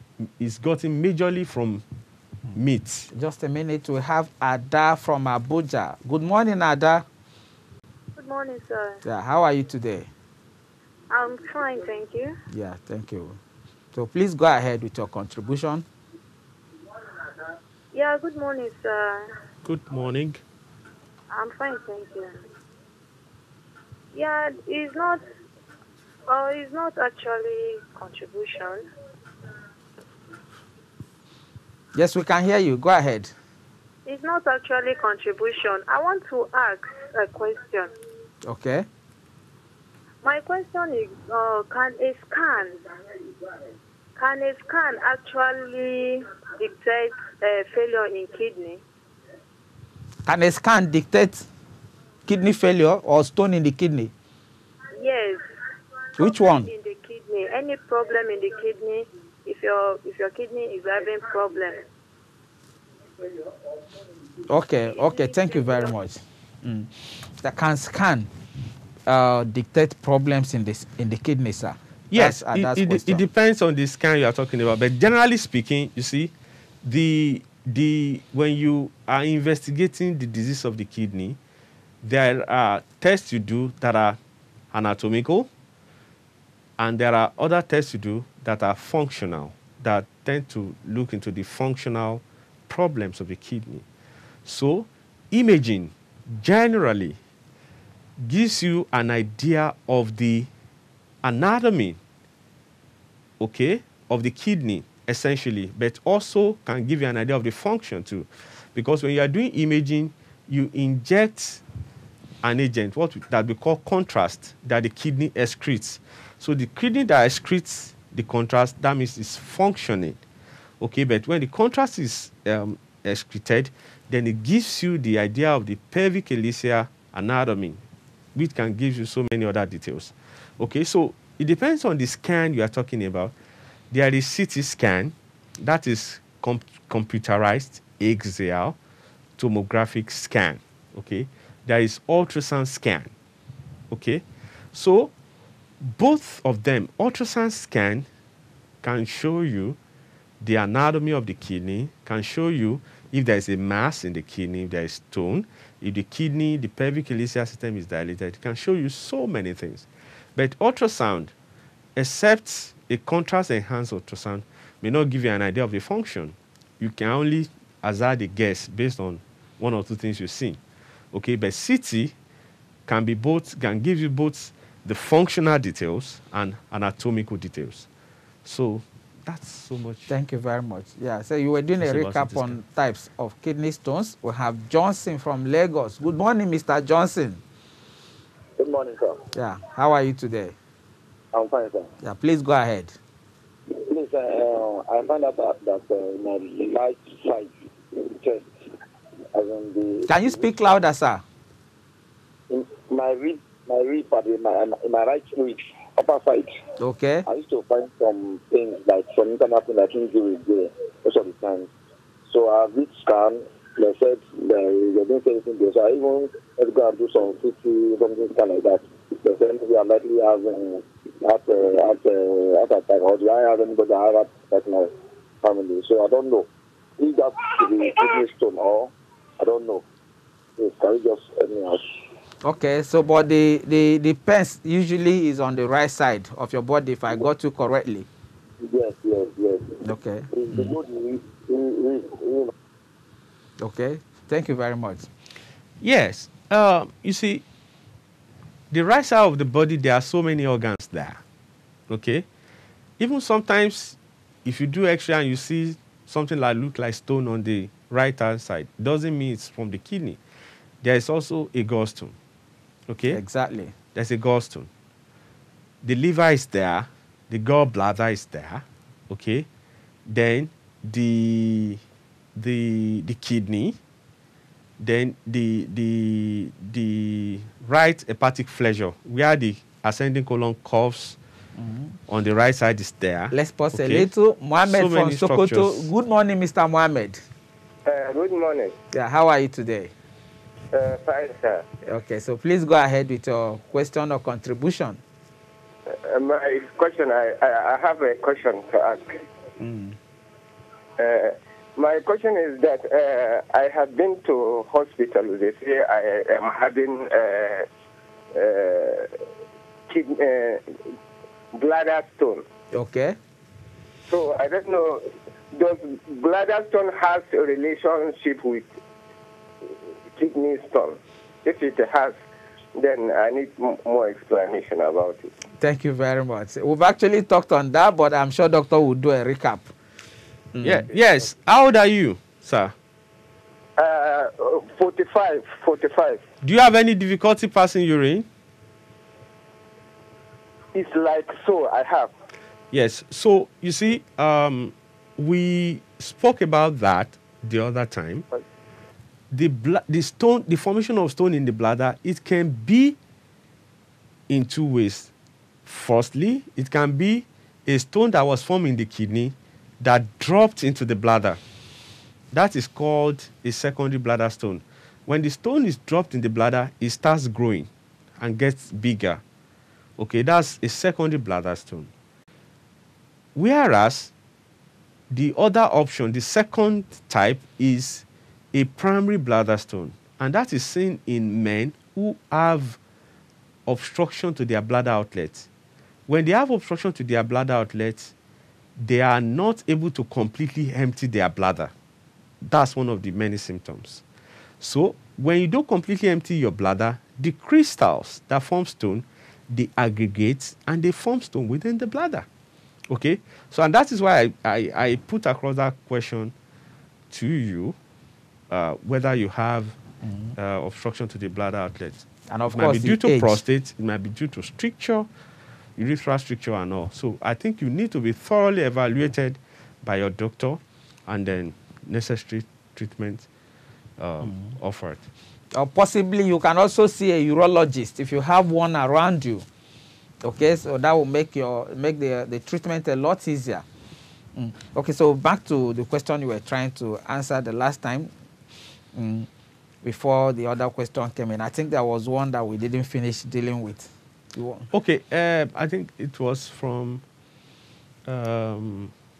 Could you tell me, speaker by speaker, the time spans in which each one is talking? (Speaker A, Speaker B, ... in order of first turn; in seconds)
Speaker A: 0.2-1.8, 2.5-3.1, 19.6-20.4, 72.1-76.3, 76.8-81.4, 82.0-84.2, 84.7-85.5, 86.8-93.8, 94.4-97.2, 98.2-100.5, 101.2-102.0, 103.4-111.6, 112.4-120.2, 120.8-127.8, 128.3-133.3, 133.9-138.8, 139.4-143.1, 143.9-145.1, 145.8-148.1, 148.8-149.8, 150.4-161.3, 161.9-170.6, 171.1-172.1, 172.9-177.9, 178.4-180.1, 181.8-182.6, 245.8-247.4, 248.7-251.2, 251.9-252.2, 253.0-260.2, 260.8-262.1, 262.9-263.2, 263.9-264.7, 265.8-269.5, 270.1-271.8, 272.4-273.8, 274.8-281.2, 282.1-284.1, 284.6-285.9, 330.6-332.7, 336.4-338.3, 342.7-348.2, 349.3-353.0, 354.3-355.1, 355.6-361.4, 362.3-369.2, 370.0-371.9, 373.3-374.1, 375.1-382.8, 383.6-385.5, 386.1-388.1, 388.8-391.7, 392.4-394.0, 394.6-402.3, 402.9-406.3, 407.1-407.8, 408.5-409.8, 410.4-415.1, 415.8-423.3, 424.0-425.0, 444.7-447.0, 448.1-448.9
Speaker B: 3.1-7.0, 9.0-10.1, 12.5-13.4, 13.9-15.8, 31.9-33.3, 38.4-38.9, 50.2-51.5, 52.3-54.1, 56.2-56.7, 64.5-68.3, 69.1-73.2, 180.1-187.4, 189.3-190.6, 192.0-192.9, 200.1-201.2, 206.8-207.2, 232.4-238.1, 239.8-240.7, 243.6-245.1, 263.1-263.7, 281.6-281.9, 283.3-287.2, 288.9-289.9, 291.8-295.0, 299.6-300.0, 312.7-313.2, 325.6-329.7, 330.5-330.9, 410.0-410.3, 412.3-413.4, 425.5-429.4, 430.2-433.6, 434.3-438.1, 438.9-439.3, 439.8-444.7
Speaker C: 8.2-9.0, 11.1-12.4, 17.9-19.3, 21.3-22.4, 24.1-25.2, 26.3-28.8, 34.0-37.9, 40.2-42.7, 44.2-48.8, 55.0-55.4, 56.6-61.8, 65.0-65.9
Speaker D: 188.6-189.2, 191.3-191.9, 193.7-198.5, 199.3-200.6, 202.5-206.5, 207.2-211.7, 212.3-224.9, 225.4-229.8, 230.6-231.8, 238.6-242.5
Speaker E: 287.8-288.8, 290.7-291.6, 295.9-299.2, 301.0-307.6, 308.3-309.1, 309.9-310.8, 311.6-312.4, 314.1-318.7, 320.1-322.1, 322.8-325.3, 333.8-336.2, 340.7-342.1